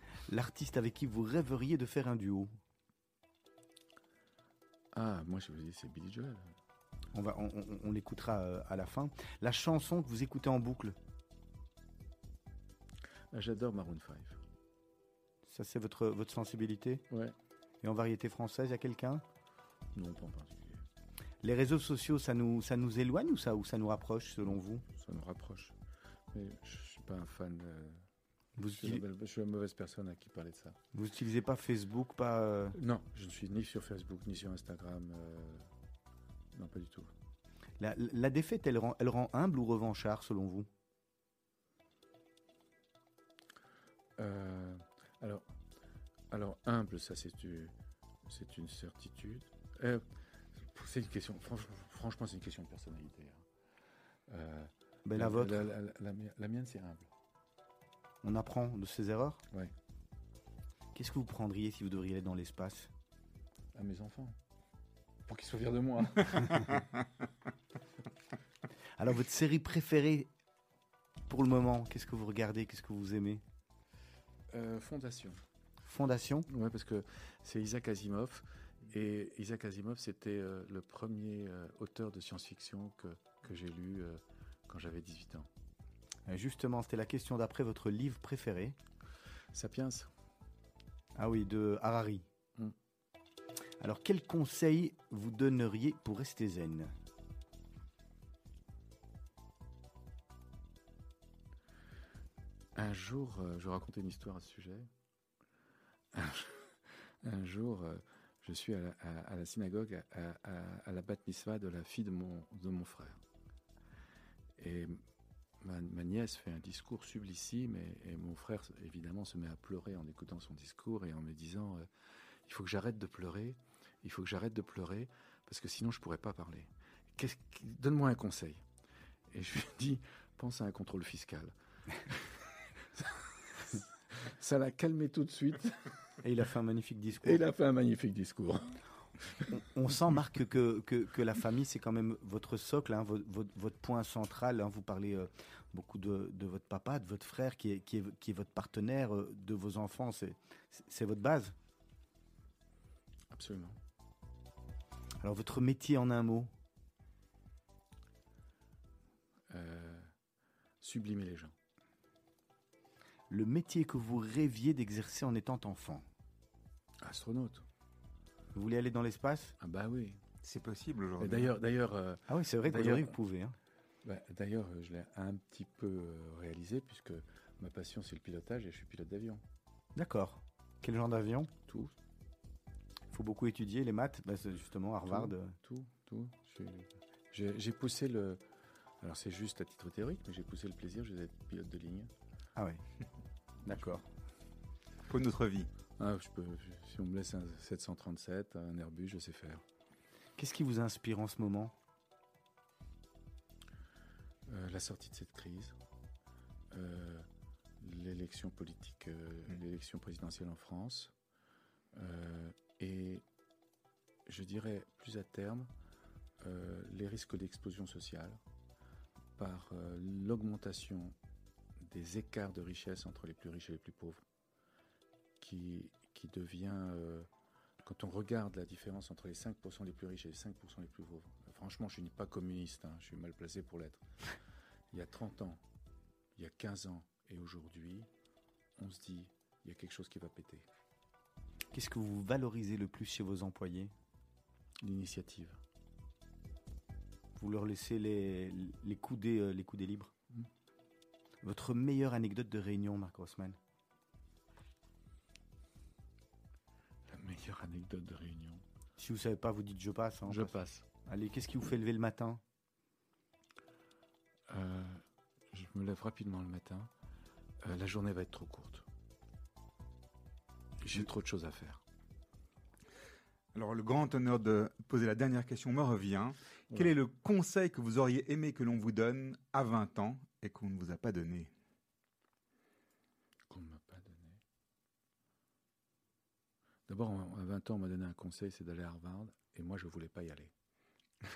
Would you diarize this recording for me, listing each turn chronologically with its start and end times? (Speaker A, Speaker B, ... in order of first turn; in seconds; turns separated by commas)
Speaker A: 0.3-2.5, Speaker B: 4.9-6.6, Speaker A: 7.1-11.0, Speaker B: 13.3-14.4, Speaker A: 15.5-17.0, Speaker B: 17.1-17.4, Speaker A: 17.8-19.2, Speaker B: 19.9-20.8, Speaker A: 21.4-24.9, Speaker B: 24.9-25.8, Speaker B: 26.3-28.0, Speaker A: 28.6-29.0, Speaker B: 28.6-30.8, Speaker A: 30.9-32.8, Speaker B: 32.8-35.7, Speaker B: 36.5-37.1, Speaker A: 37.8-40.7, Speaker B: 44.2-45.5, Speaker B: 46.3-53.5, Speaker B: 54.3-57.1, Speaker A: 55.1-55.7, Speaker A: 58.2-59.4, Speaker A: 61.0-62.9, Speaker B: 63.7-64.4, Speaker B: 65.3-66.9, Speaker A: 69.0-70.3, Speaker A: 71.3-73.4, Speaker B: 74.5-75.4, Speaker A: 75.8-76.5, Speaker B: 76.5-85.5, Speaker A: 86.3-88.8, Speaker B: 89.5-90.1, Speaker A: 91.2-92.2, Speaker A: 93.8-96.9, Speaker B: 102.8-104.9, Speaker B: 106.1-113.2, Speaker B: 114.6-115.0, Speaker B: 115.6-121.9, Speaker B: 122.5-128.6, Speaker B: 129.3-131.5, Speaker B: 133.0-135.9, Speaker A: 136.2-137.4, Speaker B: 137.2-138.8, Speaker A: 139.5-151.5, Speaker B: 153.3-153.8, Speaker A: 155.2-156.5, Speaker B: 159.5-160.1, Speaker B: 160.8-161.6, Speaker A: 163.3-166.1, Speaker B: 167.0-167.7, Speaker A: 168.5-169.6, Speaker B: 169.6-170.2, Speaker C: 170.4-171.5, Speaker B: 171.2-173.2, Speaker A: 172.3-173.6, Speaker B: 174.0-179.4, Speaker A: 179.9-181.5, Speaker B: 181.7-181.9, Speaker A: 183.1-185.6, Speaker B: 185.1-188.4, Speaker B: 189.0-192.1, Speaker A: 192.6-192.8, Speaker A: 193.7-194.0, Speaker C: 195.1-195.7, Speaker B: 196.0-199.6, Speaker A: 200.4-201.7, Speaker B: 204.5-205.8, Speaker B: 206.7-207.3, Speaker B: 207.8-211.1, Speaker B: 211.9-213.2, Speaker B: 214.3-215.7, Speaker B: 216.4-218.4, Speaker B: 219.4-221.2, Speaker B: 221.8-224.2, Speaker B: 225.4-227.3, Speaker B: 227.8-234.0, Speaker B: 234.9-235.6, Speaker B: 236.3-238.1, Speaker B: 238.8-240.7, Speaker A: 241.7-243.9, Speaker B: 244.8-245.6, Speaker A: 247.4-250.1, Speaker A: 251.4-253.6, Speaker B: 257.1-258.6, Speaker A: 259.0-260.6, Speaker B: 260.3-260.9, Speaker A: 261.1-262.4, Speaker B: 264.5-266.9, Speaker B: 267.6-268.9, Speaker B: 270.8-271.8, Speaker C: 273.5-281.5, Speaker B: 283.5-284.4, Speaker B: 286.9-290.5